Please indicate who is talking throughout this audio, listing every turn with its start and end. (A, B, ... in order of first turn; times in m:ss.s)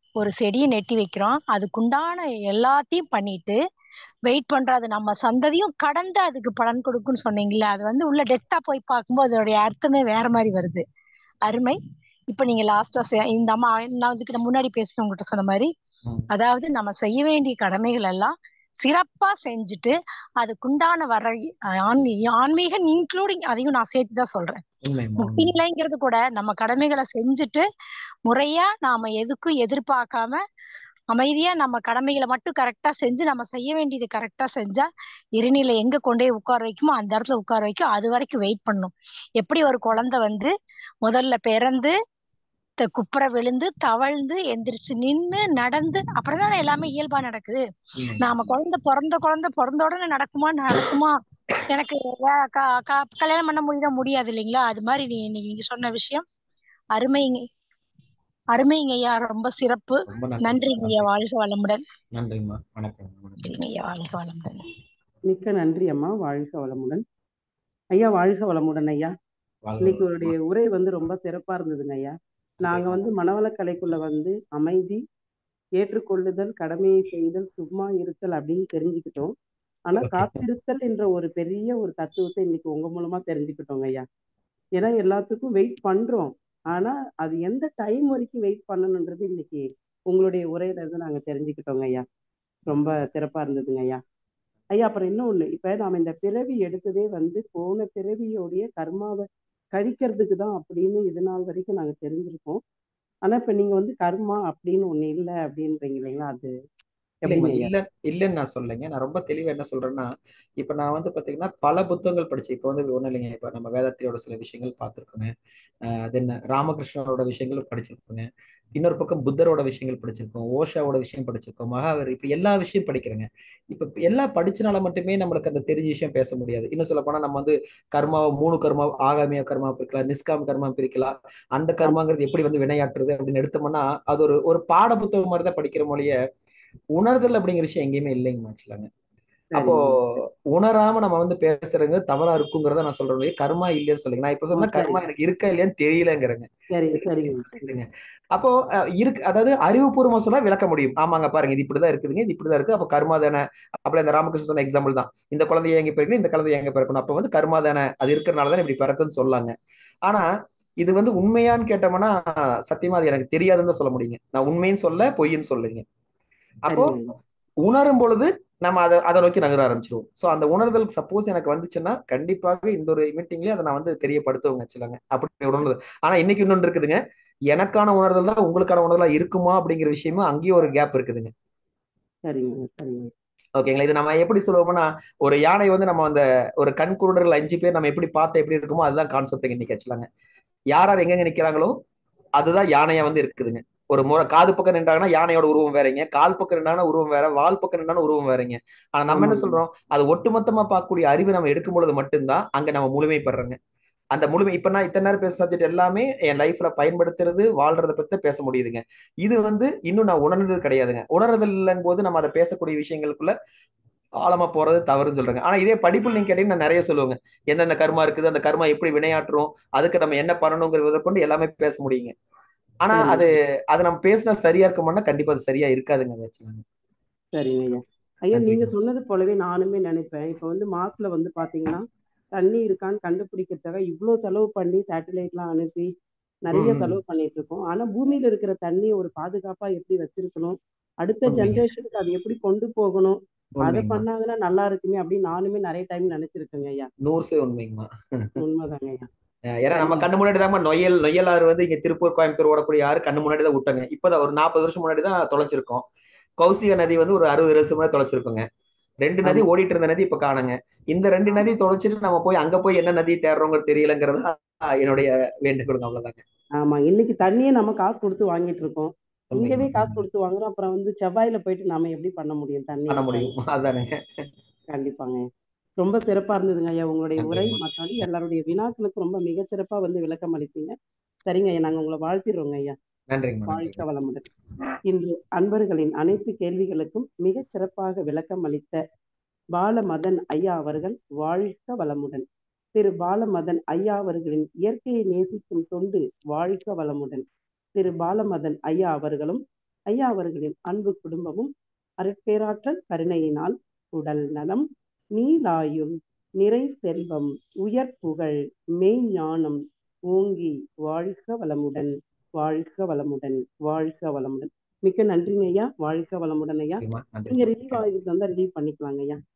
0:00.2-0:03.6 A
0:04.3-0:10.8 A
0:11.4-0:11.8 A
0:12.3-0:15.7 A
0:16.3-0:24.6 A
0:24.8-0:25.5 B
0:25.2-0:27.6 A
0:28.3-0:30.4 A
0:31.1-0:34.9 A
0:35.4-0:40.5 A
0:41.0-0:41.9 A
0:42.8-0:47.6 A
0:48.0-0:48.5 B
0:48.2-0:51.2 A
0:51.7-0:56.2 A
0:56.9-0:57.4 A
0:58.5-1:01.8 A
1:00.1-1:01.1 B
1:02.1-1:03.6 B
1:03.4-1:04.6 A
1:05.3-1:07.0 C
1:07.9-1:09.1 C
1:09.6-1:10.3 B
1:09.8-1:15.0 C
1:12.6-1:13.0 B
1:15.8-1:19.3 C
1:19.9-1:24.0 C
1:20.0-1:20.4 B
1:24.8-1:32.0 C
1:32.7-1:34.0 C
1:34.7-1:42.6 C
1:43.2-1:46.5 C
1:47.2-1:47.7 C
1:47.3-1:55.3 B
1:55.8-2:16.2 B
2:16.9-2:18.9 B
2:19.5-2:20.0 C
2:19.6-2:39.5 B
2:24.5-2:25.0 C
2:26.7-2:27.6 C
2:40.8-2:45.8 B
2:46.7-2:47.2 C
2:47.6-2:57.0 B
2:57.5-3:01.3 B
3:02.2-3:03.1 C
3:03.6-3:10.0 B
3:10.7-3:11.8 B
3:12.4-3:23.6 B
3:19.1-3:19.6 C
3:24.1-3:33.3 B
3:34.2-3:42.1 B
3:42.8-3:46.6 B
3:42.9-3:43.3 C
3:47.3-3:51.8 C
3:48.3-3:48.7 B
3:52.4-3:55.9 C
3:56.4-4:06.9 C
3:56.5-3:57.0 B
4:01.3-4:01.6 B
4:03.6-4:04.0 B
4:07.0-4:08.3 B
4:08.4-4:09.1 C
4:09.5-4:15.8 B
4:09.7-4:10.1 C
4:16.4-4:18.4 B
4:19.0-4:26.2 B
4:26.6-4:33.3 C
4:29.3-4:30.0 B
4:32.9-4:34.2 B
4:34.7-4:35.2 C
4:35.8-4:42.8 C
4:37.2-4:37.6 B
4:43.1-4:43.8 B
4:43.5-4:44.3 C
4:44.9-4:48.8 C
4:49.5-4:57.2 C
4:57.8-5:19.2 C
5:16.8-5:17.8 B